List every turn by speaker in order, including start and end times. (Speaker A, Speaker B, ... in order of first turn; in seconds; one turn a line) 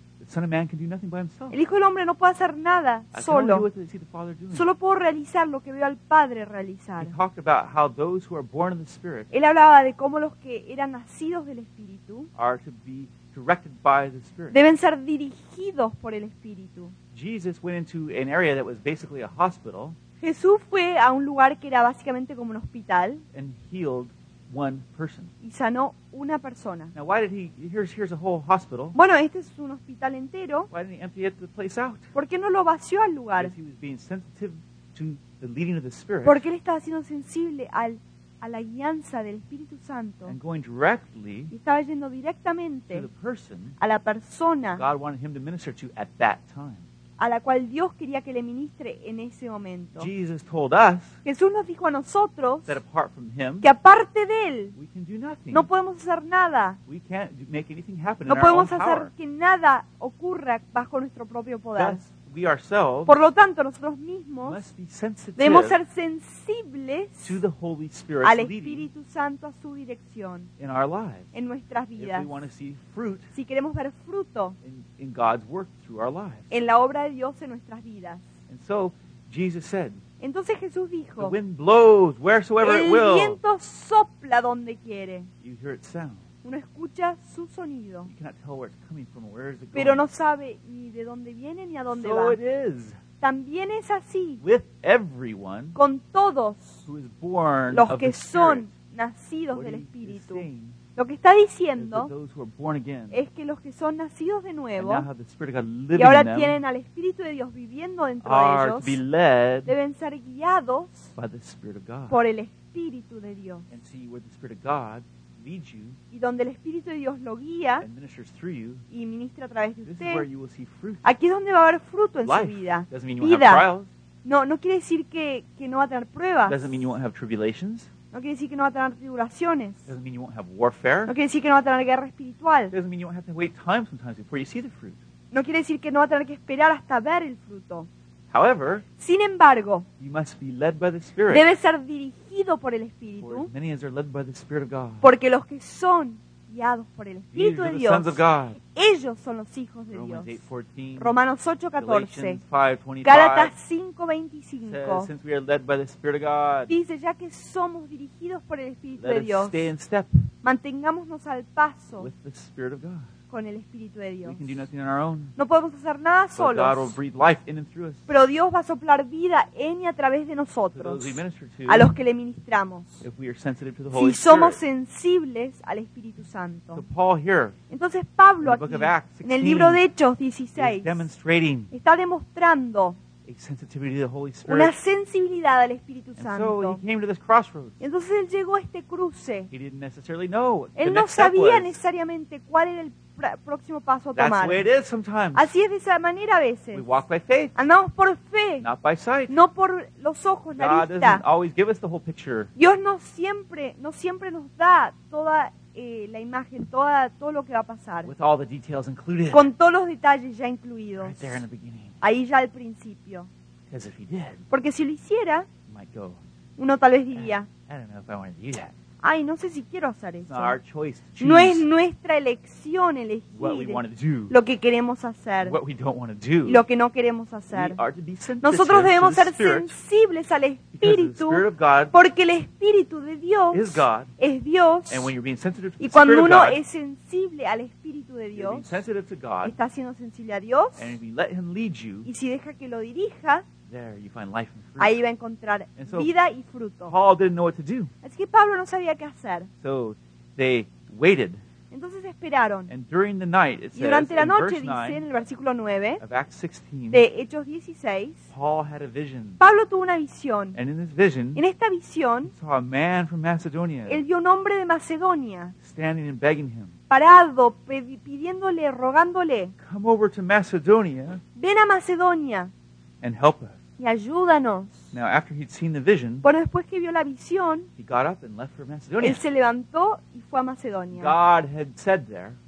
Speaker A: 0.2-1.6
Speaker B: 1.5-3.7
Speaker A: 3.1-4.7
Speaker B: 4.5-7.1
Speaker A: 7.0-9.3
Speaker B: 9.3-12.3
Speaker A: 12.4-14.6
Speaker B: 14.5-16.9
Speaker A: 17.1-20.0
Speaker B: 20.2-23.2
Speaker A: 23.3-25.3
Speaker B: 25.4-26.9
Speaker A: 26.9-29.0
Speaker B: 28.9-30.7
Speaker A: 30.7-32.1
Speaker B: 32.1-33.5
Speaker A: 33.4-36.5
Speaker B: 36.3-40.4
Speaker A: 40.3-41.5
Speaker B: 41.5-43.1
Speaker A: 42.9-43.8
Speaker B: 43.8-44.8
Speaker A: 44.8-46.9
Speaker B: 47.2-50.1
Speaker A: 50.0-51.2
Speaker B: 51.2-52.8
Speaker A: 52.7-53.7
Speaker B: 53.6-54.7
Speaker A: 54.8-55.7
Speaker B: 55.5-56.8
Speaker A: 56.9-59.1
Speaker B: 58.3-62.0
Speaker A: 61.8-63.1
Speaker B: 63.1-64.6
Speaker A: 64.5-65.8
Speaker B: 65.4-67.4
Speaker A: 67.2-68.9
Speaker B: 68.2-70.5
Speaker A: 70.6-71.3
Speaker B: 71.3-72.4
Speaker A: 72.0-73.3
Speaker B: 73.3-74.6
Speaker A: 74.6-76.5
Speaker B: 76.5-78.3
Speaker A: 78.5-80.0
Speaker B: 80.2-81.4
Speaker A: 81.2-83.4
Speaker B: 82.6-85.3
Speaker A: 85.4-86.2
Speaker B: 86.4-88.1
Speaker A: 88.1-90.1
Speaker B: 89.7-92.4
Speaker A: 91.9-93.0
Speaker B: 93.2-94.4
Speaker A: 94.4-95.8
Speaker B: 95.8-96.8
Speaker A: 96.9-98.7
Speaker B: 97.7-100.5
Speaker A: 99.5-100.8
Speaker B: 101.0-102.1
Speaker A: 101.8-103.2
Speaker B: 103.1-105.1
Speaker A: 104.8-106.6
Speaker B: 106.0-109.0
Speaker A: 108.2-109.7
Speaker B: 109.7-111.1
Speaker A: 111.2-112.2
Speaker B: 112.1-113.7
Speaker A: 113.7-116.0
Speaker B: 116.1-117.9
Speaker A: 117.8-118.8
Speaker B: 118.9-120.3
Speaker A: 119.8-121.1
Speaker B: 121.0-123.7
Speaker A: 122.2-123.9
Speaker B: 124.2-126.6
Speaker A: 126.5-127.9
Speaker B: 128.1-129.9
Speaker A: 129.9-131.1
Speaker B: 131.1-132.7
Speaker A: 132.7-135.0
Speaker B: 135.3-137.9
Speaker A: 138.3-138.8
Speaker B: 139.0-139.9
Speaker A: 140.0-141.4
Speaker B: 141.3-143.5
Speaker A: 143.2-145.1
Speaker B: 145.0-150.3
Speaker A: 147.3-148.6
Speaker A: 149.9-151.1
Speaker B: 151.0-152.4
Speaker A: 151.8-153.5
Speaker B: 153.0-155.1
Speaker A: 154.6-156.7
Speaker B: 156.7-159.7
Speaker A: 159.0-160.2
Speaker B: 160.4-162.1
Speaker A: 162.0-163.1
Speaker B: 163.3-164.4
Speaker A: 164.2-165.3
Speaker B: 165.4-166.9
Speaker A: 166.4-168.1
Speaker B: 168.1-173.0
Speaker A: 170.7-171.9
Speaker A: 173.0-174.6
Speaker B: 173.9-176.8
Speaker A: 176.8-177.6
Speaker B: 177.7-181.1
Speaker A: 178.4-179.8
Speaker A: 180.6-181.7
Speaker B: 181.7-183.0
Speaker A: 183.3-184.7
Speaker B: 184.5-186.8
Speaker A: 186.2-187.8
Speaker B: 187.8-189.5
Speaker A: 189.5-191.8
Speaker B: 190.8-194.6
Speaker A: 194.2-195.5
Speaker B: 195.3-196.8
Speaker A: 196.7-197.6
Speaker B: 197.6-198.7
Speaker A: 198.6-199.4
Speaker B: 199.3-201.2
Speaker A: 200.6-202.5
Speaker B: 202.6-208.1
Speaker A: 208.0-209.5
Speaker B: 209.3-211.4
Speaker A: 211.0-212.0
Speaker B: 212.0-213.3
Speaker A: 213.7-214.4
Speaker B: 214.5-215.5
Speaker A: 215.7-216.2
Speaker B: 216.6-217.5
Speaker A: 217.2-218.7
Speaker B: 219.0-220.6
Speaker A: 220.3-221.7
Speaker B: 221.2-225.6
Speaker A: 223.3-224.4
Speaker A: 225.4-226.6
Speaker B: 226.4-227.8
Speaker A: 227.5-229.8
Speaker B: 228.4-235.1
Speaker A: 230.8-231.9
Speaker A: 233.5-234.1
Speaker A: 234.9-236.6
Speaker B: 235.8-238.7
Speaker A: 238.3-239.6
Speaker B: 239.4-240.9
Speaker A: 240.8-242.1
Speaker B: 242.1-243.4
Speaker A: 243.7-245.0
Speaker B: 244.8-246.9
Speaker A: 245.8-246.1
Speaker A: 246.9-247.9
Speaker B: 248.0-249.5
Speaker A: 249.6-251.4
Speaker B: 251.7-252.7
Speaker A: 252.7-255.0
Speaker B: 253.8-256.0
Speaker A: 256.0-257.0
Speaker B: 256.9-258.2
Speaker A: 258.3-259.4
Speaker B: 259.4-260.6
Speaker A: 260.6-261.4
Speaker B: 261.4-262.3
Speaker A: 262.3-264.0
Speaker B: 263.9-265.5
Speaker A: 265.6-266.8
Speaker B: 266.9-269.5
Speaker A: 269.6-271.2
Speaker B: 271.4-272.5
Speaker A: 273.0-273.6
Speaker B: 273.8-274.9
Speaker A: 274.9-276.3
Speaker B: 276.2-277.7
Speaker A: 277.8-279.2
Speaker B: 279.0-281.1
Speaker A: 280.9-282.4